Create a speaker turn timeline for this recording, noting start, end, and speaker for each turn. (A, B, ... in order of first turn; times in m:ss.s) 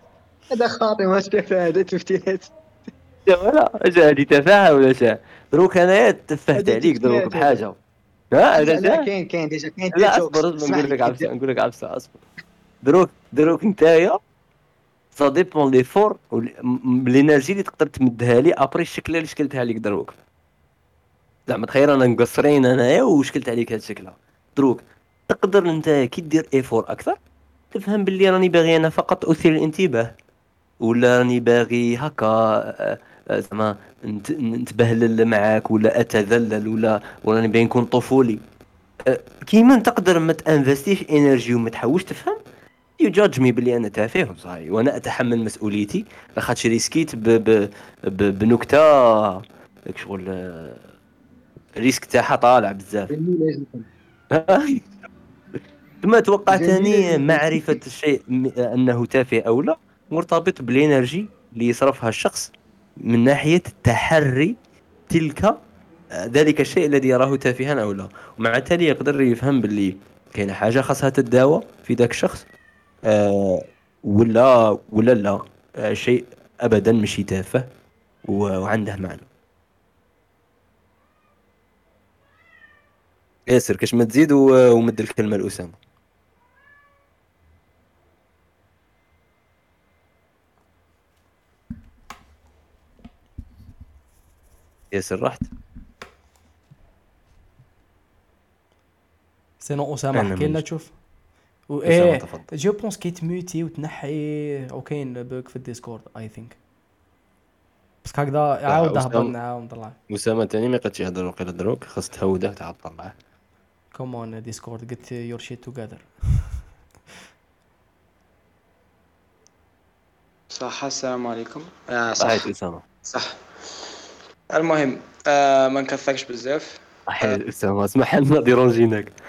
0:00.5-0:02.5 A
0:03.3-0:07.8 B
0:06.5-0:07.6 A
0:08.3-0:09.1 B
0:08.6-0:11.3 A
0:09.9-0:12.2 B
0:12.8-0:14.2 B
0:15.2-0:20.2 B
0:21.5-0:27.2 B
0:27.7-0:30.1 B
0:30.8-0:38.4 B
0:39.1-0:42.4 B
0:43.0-0:50.8 B
0:51.8-0:53.1 B
0:53.1-0:53.9 A
0:54.3-0:54.9 B
0:56.0-1:04.6 B
0:56.5-0:57.8 A
1:05.1-1:05.6 B
1:06.2-1:12.4 B
1:13.1-1:17.7 B
1:18.2-1:19.3 B
1:23.5-1:25.8 B
1:34.9-1:35.5 B
1:39.6-1:40.9 C
1:40.2-1:40.6 B
1:41.7-1:46.6 C
1:41.9-1:42.5 B
1:48.0-1:50.0 C
1:48.7-1:49.3 B
1:50.1-1:53.2 B
1:53.9-1:56.5 C
2:00.5-2:02.4 D
2:02.2-2:02.8 B
2:03.0-2:03.4 D
2:04.5-2:07.4 D
2:07.1-2:09.1 B